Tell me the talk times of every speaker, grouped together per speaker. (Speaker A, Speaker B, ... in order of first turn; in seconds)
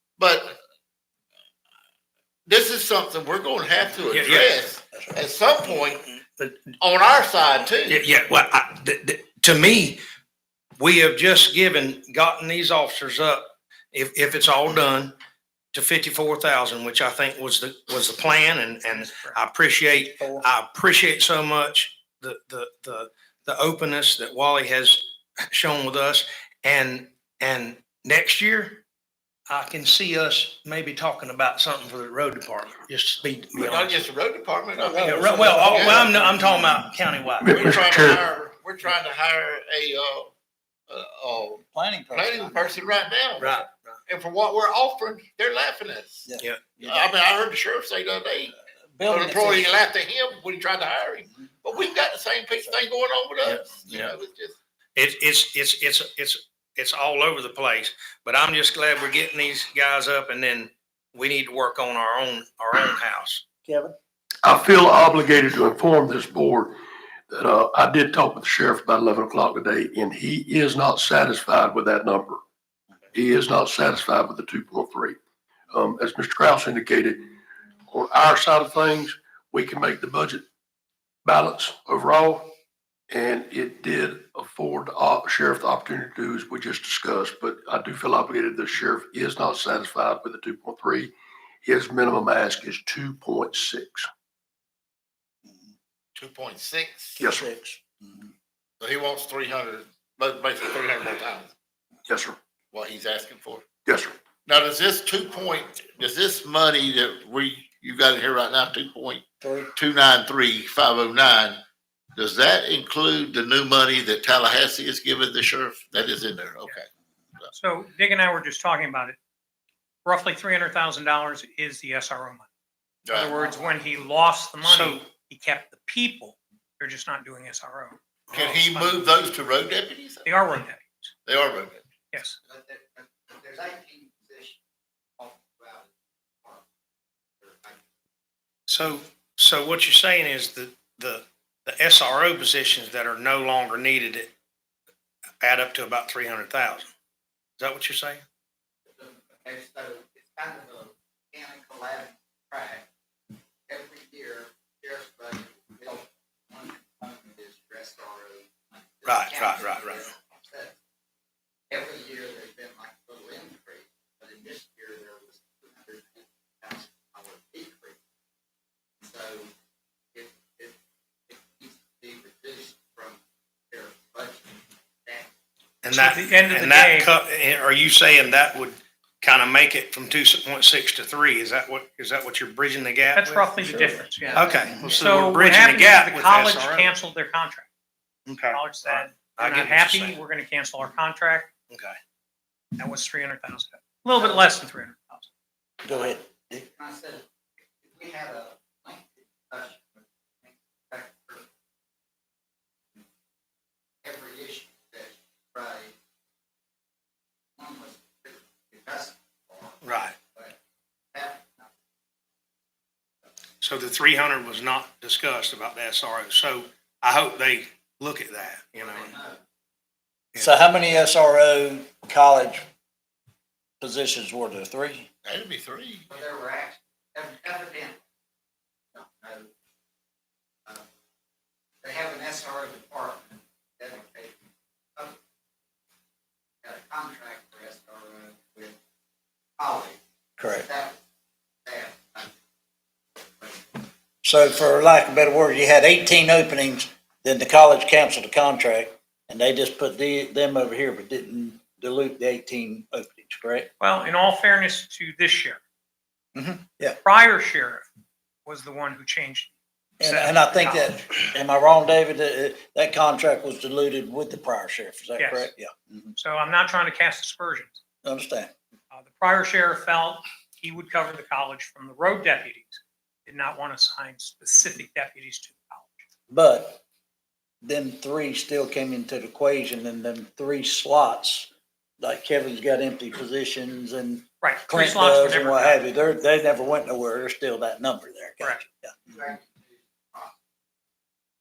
Speaker A: 0.2-0.6, 2.5-6.0, 6.8-8.0, 33.6-36.1, 37.5-40.3, 40.9-41.6, 42.1-46.3, 46.8-48.5, 49.1-54.6, 96.2-97.2, 98.8-101.5, 102.7-103.6, 104.5-109.2, 109.8-111.6, 112.2-116.9, 123.0-123.3, 128.3-130.3, 131.2-131.8, 225.2-226.1
Speaker B: 4.1-4.5, 5.8-6.6, 7.9-10.0, 10.8-15.2, 15.7-28.8, 29.5-33.9, 35.0-37.5, 43.4-44.0, 53.4-54.1, 55.0-63.4, 124.6-125.0, 138.7-144.3, 145.4-146.9, 147.6-148.2, 159.1-160.0, 175.8-186.9, 188.3-190.2, 191.7-192.0, 209.8-210.2, 213.6-219.2
Speaker C: 4.9-5.2, 19.9-20.5, 34.8-36.8, 41.6-42.9, 46.3-47.1, 48.9-49.8, 63.7-64.0, 97.2-98.3, 109.4-109.7, 195.8-196.7, 220.4-222.7, 223.8-225.1, 240.4-240.7, 244.2-253.7, 256.4-257.0, 260.0-266.1, 268.0-268.5, 276.3-276.8, 277.6-281.5, 282.0-288.9
Speaker D: 18.9-19.4, 117.5-119.2, 120.0-122.5, 123.1-129.1, 130.2-131.1, 132.1-132.4, 175.9-177.1, 183.1-187.7, 188.5-191.5, 192.8-195.3, 253.8-255.6, 257.0-257.9, 258.5-261.0, 265.2-265.5, 266.2-267.8, 268.9-276.1, 284.4-285.8
Speaker E: 37.4-38.2, 64.4-66.8, 67.3-72.4, 73.1-75.2, 75.7-77.3, 77.9-80.4, 81.2-82.5, 83.1-94.1, 97.2-97.5, 102.1-102.4, 103.9-104.1
Speaker F: 123.3-123.8, 132.4-134.6, 135.2-135.9, 137.4-137.8, 148.9-152.9, 153.7-160.7, 161.7-168.0, 169.0-169.5, 170.1-170.8, 171.3-173.2, 173.7-175.3, 184.3-185.1, 194.2-194.5, 195.9-196.2, 196.7-197.2, 197.8-201.5, 204.0-205.9, 207.6-209.8, 211.1-211.7, 218.9-219.4, 226.1-228.0, 228.9-229.5, 231.8-235.2, 236.6-238.8, 239.6-240.0, 240.5-241.0, 241.7-242.3, 243.4-243.8, 289.1-290.3